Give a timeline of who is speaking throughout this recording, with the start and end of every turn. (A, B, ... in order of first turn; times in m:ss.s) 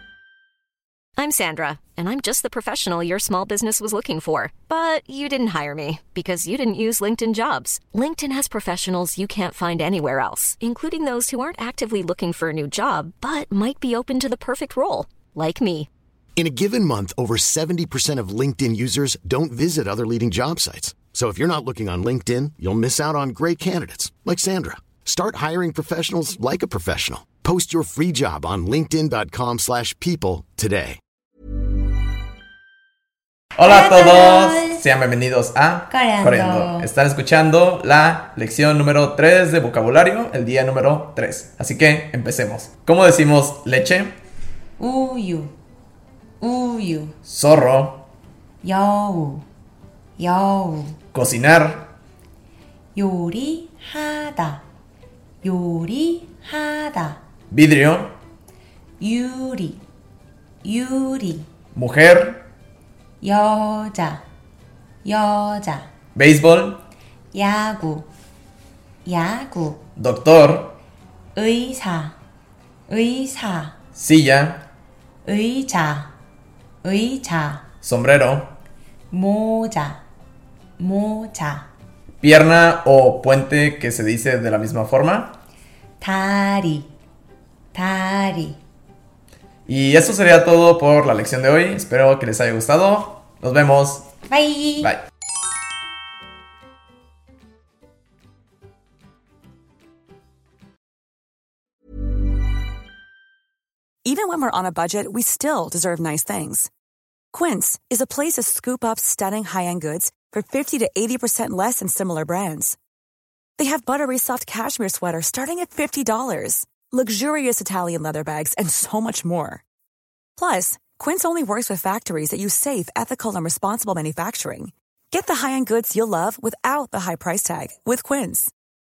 0:01.2-0:15.9 A
0:16.4-0:31.0 B
0:33.6-0:44.1 C
0:33.6-0:34.8 D
0:35.9-0:36.9 D
0:44.8-0:45.5 D
0:46.4-0:47.2 D
0:47.2-0:48.0 C
0:48.6-0:49.4 D
0:50.2-0:51.0 D
0:51.1-0:51.9 C
0:52.9-0:54.6 D
0:55.4-0:57.2 D
0:57.5-0:58.1 C
0:59.0-0:59.8 D
1:00.6-1:01.4 D
1:01.8-1:02.4 C
1:03.2-1:04.2 D
1:05.0-1:05.9 D
1:06.1-1:06.8 C
1:07.3-1:08.1 D
1:09.0-1:09.8 D
1:10.0-1:10.7 C
1:11.3-1:12.2 D
1:12.9-1:13.8 D
1:14.0-1:14.6 C
1:15.2-1:16.1 D
1:16.8-1:17.7 D
1:17.8-1:18.6 C
1:19.1-1:20.0 D
1:20.8-1:21.7 D
1:22.2-1:25.4 C
1:26.0-1:26.9 D
1:27.7-1:28.6 D
1:29.7-1:34.1 C
1:34.3-1:34.9 D
1:44.0-1:46.7 E
1:47.3-1:52.8 E
1:53.6-1:59.6 E
2:00.4-2:08.5 E